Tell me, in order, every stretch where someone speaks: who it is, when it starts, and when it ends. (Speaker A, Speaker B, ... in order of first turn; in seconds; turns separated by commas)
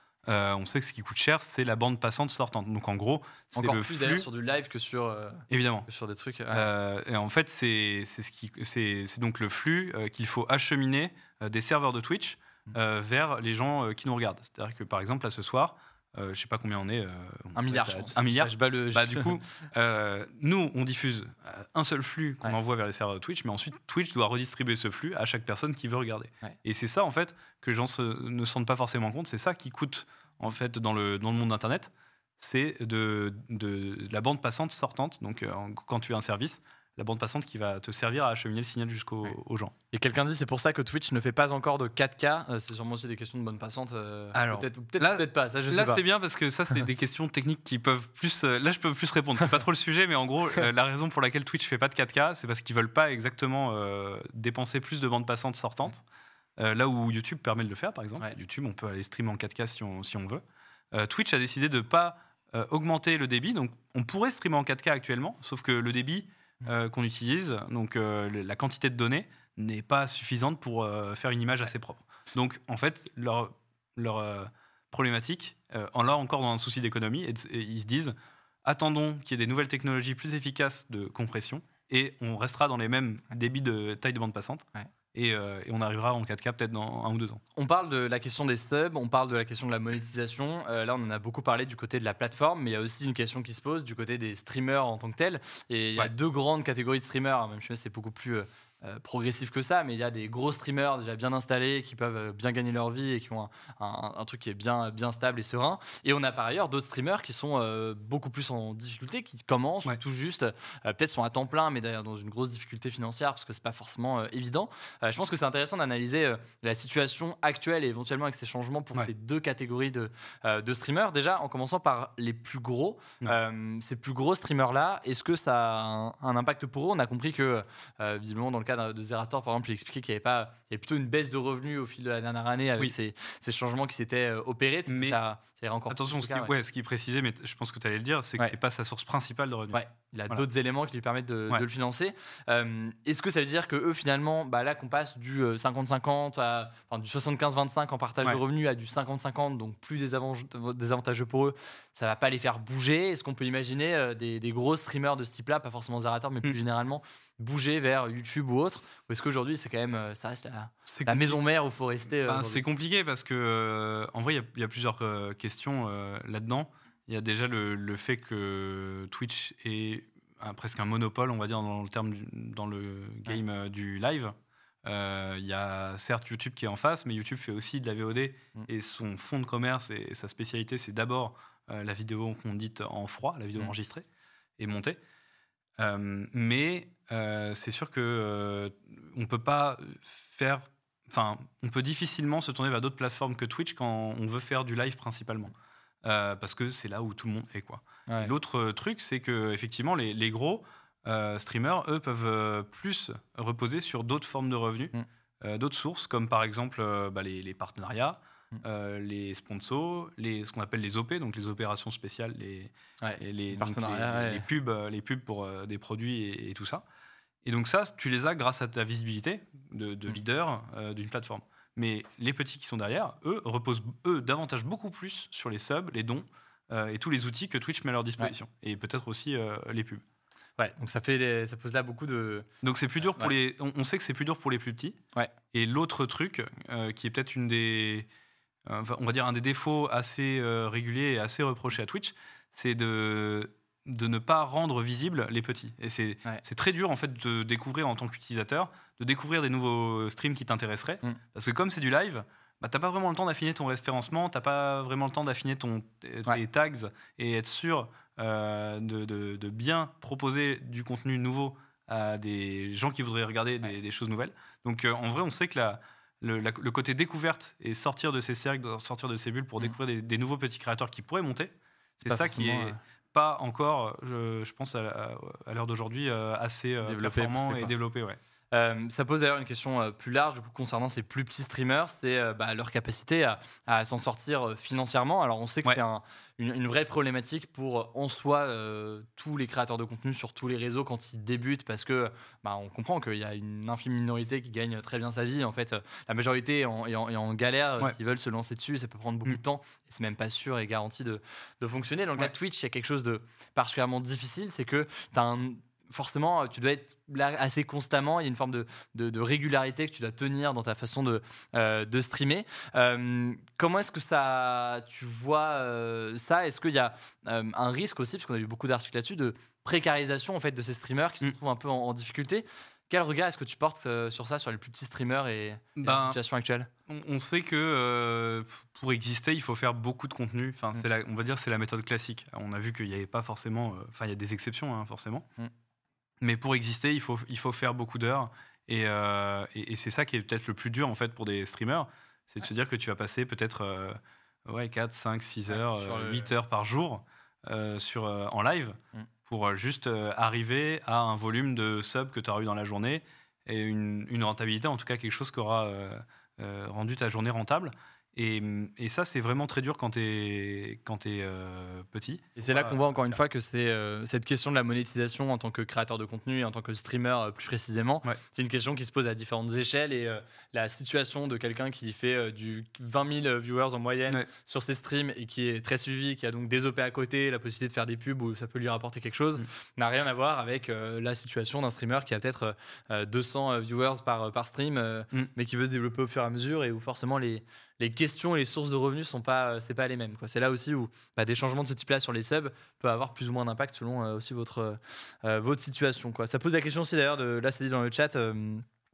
Speaker A: 0.2-4.3, Speaker B: 3.5-6.7, Speaker A: 5.5-5.9, Speaker A: 6.5-39.8, Speaker B: 17.6-19.4, Speaker B: 39.9-46.0, Speaker A: 44.3-56.0, Speaker A: 56.6-87.4, Speaker B: 87.6-136.5, Speaker A: 134.9-135.2, Speaker A: 135.9-140.4, Speaker B: 139.7-162.6, Speaker A: 160.9-161.4, Speaker A: 162.2-184.1, Speaker A: 184.6-185.0, Speaker A: 185.8-195.5, Speaker A: 196.0-216.8, Speaker B: 198.1-198.3, Speaker B: 213.0-214.5, Speaker A: 217.4-230.0, Speaker B: 230.6-232.5, Speaker A: 232.6-235.0, Speaker A: 235.5-238.1, Speaker A: 238.7-278.2, Speaker B: 272.1-272.8, Speaker B: 276.8-277.7, Speaker B: 278.5-326.7, Speaker A: 325.8-326.2, Speaker A: 326.9-335.3, Speaker A: 336.2-362.8, Speaker B: 345.5-346.3, Speaker B: 362.4-398.6